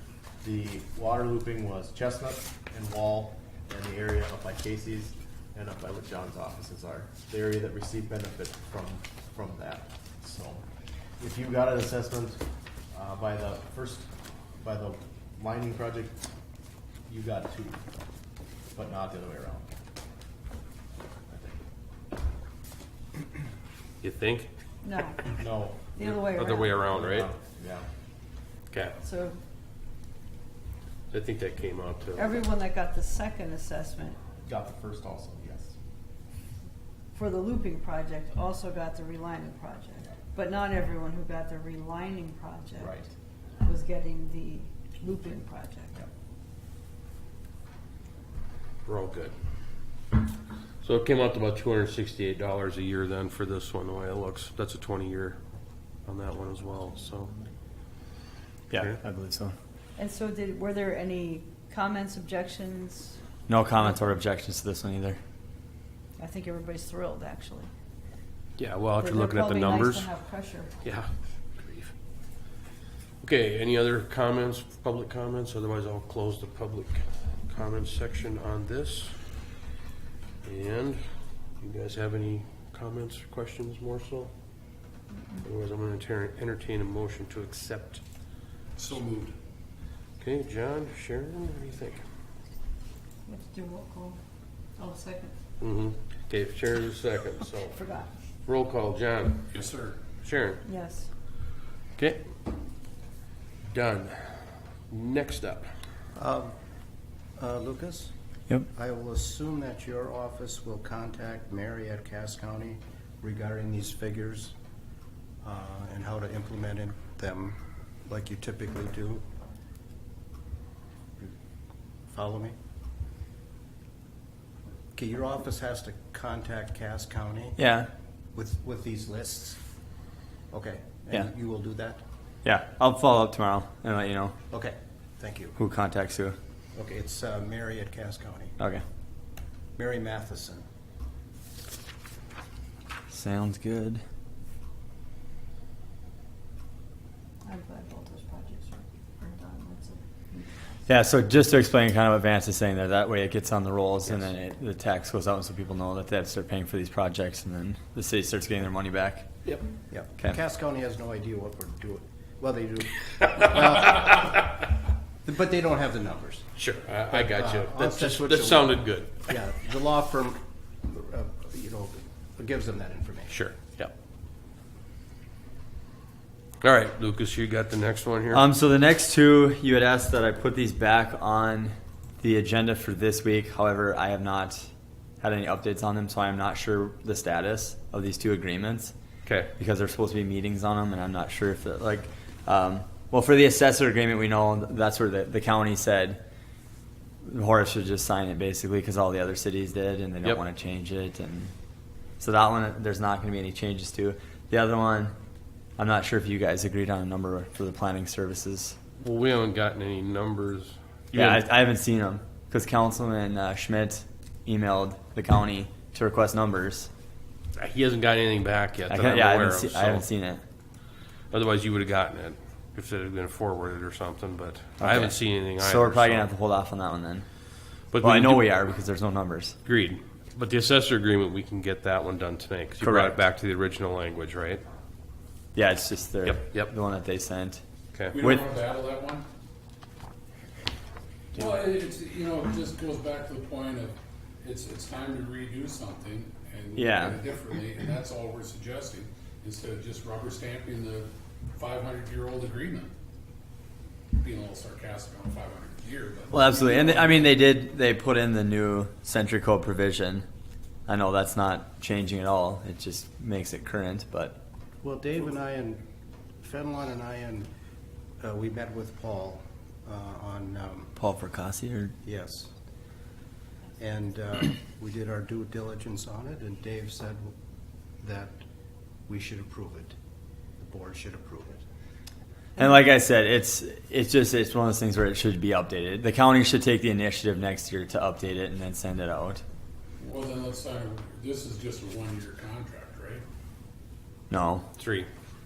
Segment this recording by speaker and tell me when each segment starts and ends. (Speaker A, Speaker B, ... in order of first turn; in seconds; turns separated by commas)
Speaker A: 0.4-10.6, Speaker A: 11.2-12.4, Speaker A: 12.9-14.1, Speaker A: 14.6-16.3, Speaker A: 17.1-17.8, Speaker A: 18.7-19.7, Speaker A: 21.3-21.6, Speaker B: 24.0-24.5, Speaker C: 24.8-25.3, Speaker A: 25.2-25.9, Speaker C: 25.9-26.9, Speaker B: 26.0-27.3, Speaker A: 26.9-27.9, Speaker B: 28.7-29.0, Speaker C: 29.0-29.4, Speaker B: 31.1-32.3, Speaker C: 32.1-34.2, Speaker A: 34.4-35.8, Speaker C: 37.1-43.0, Speaker A: 42.8-43.1, Speaker C: 43.6-45.9, Speaker B: 48.9-49.3, Speaker B: 50.8-55.4, Speaker B: 56.0-57.3, Speaker D: 58.7-59.5, Speaker B: 58.7-59.0, Speaker C: 60.0-63.2, Speaker D: 63.5-65.2, Speaker C: 66.2-67.7, Speaker B: 68.6-70.1, Speaker C: 69.0-70.7, Speaker B: 70.8-71.9, Speaker B: 73.2-79.2, Speaker B: 80.4-81.0, Speaker B: 81.6-84.3, Speaker C: 85.1-85.4, Speaker B: 85.4-88.0, Speaker E: 88.8-89.3, Speaker B: 90.2-92.0, Speaker C: 93.2-94.2, Speaker C: 94.8-95.3, Speaker B: 95.6-97.8, Speaker C: 97.7-98.1, Speaker B: 98.5-99.5, Speaker E: 99.5-100.0, Speaker B: 100.2-100.6, Speaker C: 100.6-101.1, Speaker B: 102.0-102.2, Speaker B: 103.7-105.7, Speaker F: 106.1-106.5, Speaker F: 107.4-108.1, Speaker F: 108.7-114.5, Speaker F: 115.4-119.2, Speaker F: 122.1-122.5, Speaker F: 124.9-127.6, Speaker D: 127.6-127.9, Speaker F: 128.3-129.6, Speaker F: 130.5-132.0, Speaker D: 132.4-134.3, Speaker F: 134.5-135.5, Speaker D: 135.6-136.3, Speaker F: 136.7-138.5, Speaker F: 139.8-140.6, Speaker D: 143.1-144.0, Speaker C: 147.4-150.8, Speaker D: 150.9-159.3, Speaker F: 159.9-164.4, Speaker B: 163.4-164.5, Speaker F: 165.2-166.5, Speaker B: 166.6-169.3, Speaker F: 167.1-173.4, Speaker B: 173.3-173.9, Speaker B: 176.6-178.4, Speaker D: 178.3-184.7, Speaker D: 185.2-188.9, Speaker B: 189.2-189.5, Speaker D: 189.6-196.2, Speaker D: 197.2-201.5, Speaker D: 202.2-205.1, Speaker D: 205.8-208.8, Speaker B: 209.0-211.5, Speaker D: 211.1-216.9, Speaker B: 217.6-220.0, Speaker D: 218.9-220.4, Speaker B: 221.3-226.3, Speaker D: 224.8-227.2, Speaker B: 227.9-228.5, Speaker D: 228.0-229.6, Speaker B: 229.6-234.6, Speaker D: 232.8-233.2, Speaker D: 235.5-237.6, Speaker B: 236.2-236.7, Speaker E: 238.1-239.2, Speaker E: 241.3-252.9, Speaker D: 246.8-247.2, Speaker E: 254.2-257.2, Speaker D: 256.3-260.2, Speaker D: 260.9-264.4, Speaker F: 264.8-265.8, Speaker F: 266.4-267.5, Speaker F: 268.2-270.9, Speaker D: 270.9-271.9, Speaker F: 272.0-272.5, Speaker F: 273.8-277.3, Speaker F: 278.0-278.4, Speaker F: 279.1-279.9, Speaker F: 280.6-281.6, Speaker D: 282.6-289.4, Speaker E: 290.0-293.2, Speaker D: 294.3-294.6, Speaker B: 294.8-295.1